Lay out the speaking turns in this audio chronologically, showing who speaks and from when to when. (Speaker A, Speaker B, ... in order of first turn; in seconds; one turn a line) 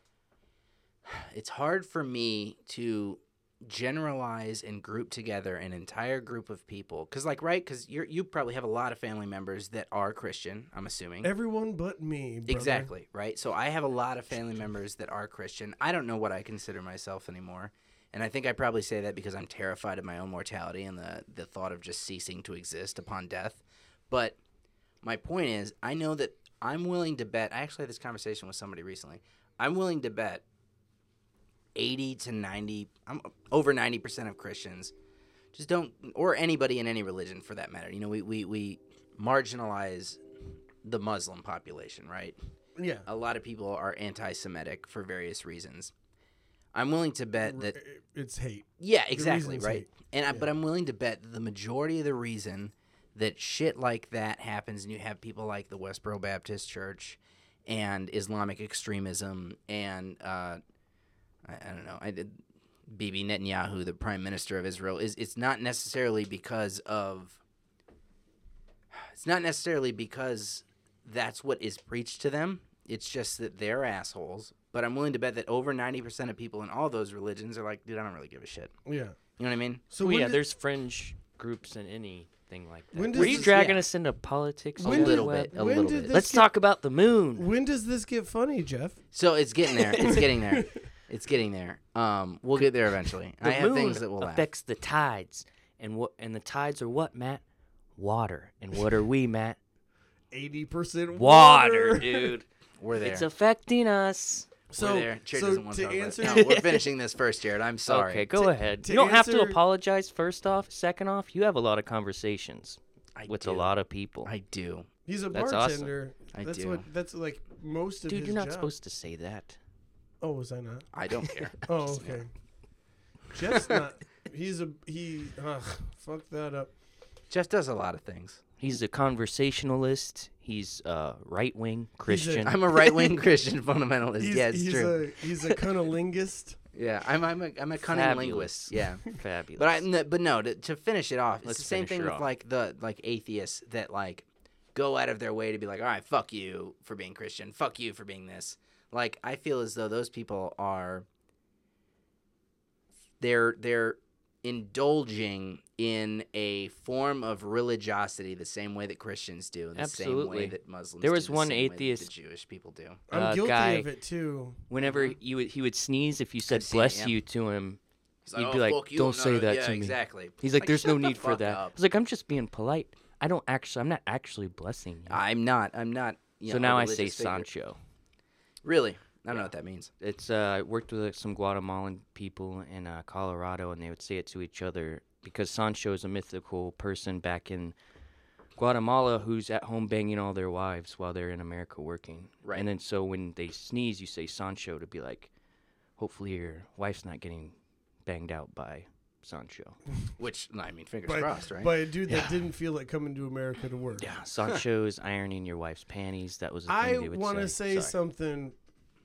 Speaker A: 1.0-11.3
Speaker B: 11.2-12.9
Speaker A: 12.5-24.4
Speaker A: 25.0-30.4
Speaker A: 31.7-34.9
Speaker A: 35.5-40.2
Speaker A: 40.8-42.4
Speaker B: 42.8-43.0
Speaker A: 43.0-45.9
Speaker A: 46.7-47.8
Speaker B: 47.5-50.5
Speaker A: 48.8-60.6
Speaker A: 61.4-67.4
Speaker A: 68.9-78.7
Speaker B: 78.8-79.2
Speaker A: 79.4-79.8
Speaker B: 79.9-80.4
Speaker C: 80.0-85.5
Speaker B: 82.9-83.7
Speaker A: 83.1-83.8
Speaker B: 84.8-86.5
Speaker A: 84.8-86.1
Speaker C: 86.1-87.5
Speaker B: 87.3-89.0
Speaker A: 89.1-94.4
Speaker B: 89.9-90.7
Speaker C: 93.4-97.4
Speaker C: 98.0-99.6
Speaker B: 100.3-102.3
Speaker C: 101.1-102.5
Speaker A: 102.8-103.2
Speaker C: 103.0-104.5
Speaker B: 104.7-106.5
Speaker A: 104.8-108.3
Speaker C: 106.2-106.8
Speaker C: 107.9-114.3
Speaker B: 108.4-109.6
Speaker A: 113.1-113.7
Speaker A: 114.2-114.9
Speaker B: 115.0-118.7
Speaker C: 115.3-115.9
Speaker A: 116.3-116.8
Speaker C: 118.1-119.6
Speaker B: 120.2-120.9
Speaker A: 120.9-122.2
Speaker B: 121.7-122.3
Speaker B: 123.3-126.7
Speaker A: 127.3-128.4
Speaker C: 128.6-132.8
Speaker B: 132.1-132.6
Speaker A: 132.4-135.6
Speaker B: 134.2-136.6
Speaker A: 136.7-151.1
Speaker C: 137.8-139.8
Speaker C: 141.4-142.2
Speaker A: 153.2-163.0
Speaker C: 159.8-162.1
Speaker B: 163.1-164.6
Speaker C: 163.1-163.9
Speaker C: 164.7-167.8
Speaker A: 164.8-165.2
Speaker A: 166.5-167.1
Speaker A: 168.2-171.8
Speaker C: 168.3-175.2
Speaker A: 175.1-177.4
Speaker C: 176.5-177.8
Speaker A: 178.6-179.9
Speaker C: 179.3-187.7
Speaker C: 188.6-195.3
Speaker C: 196.0-197.5
Speaker C: 198.1-199.8
Speaker A: 200.2-201.7
Speaker B: 201.1-204.1
Speaker C: 204.0-207.9
Speaker B: 206.7-208.5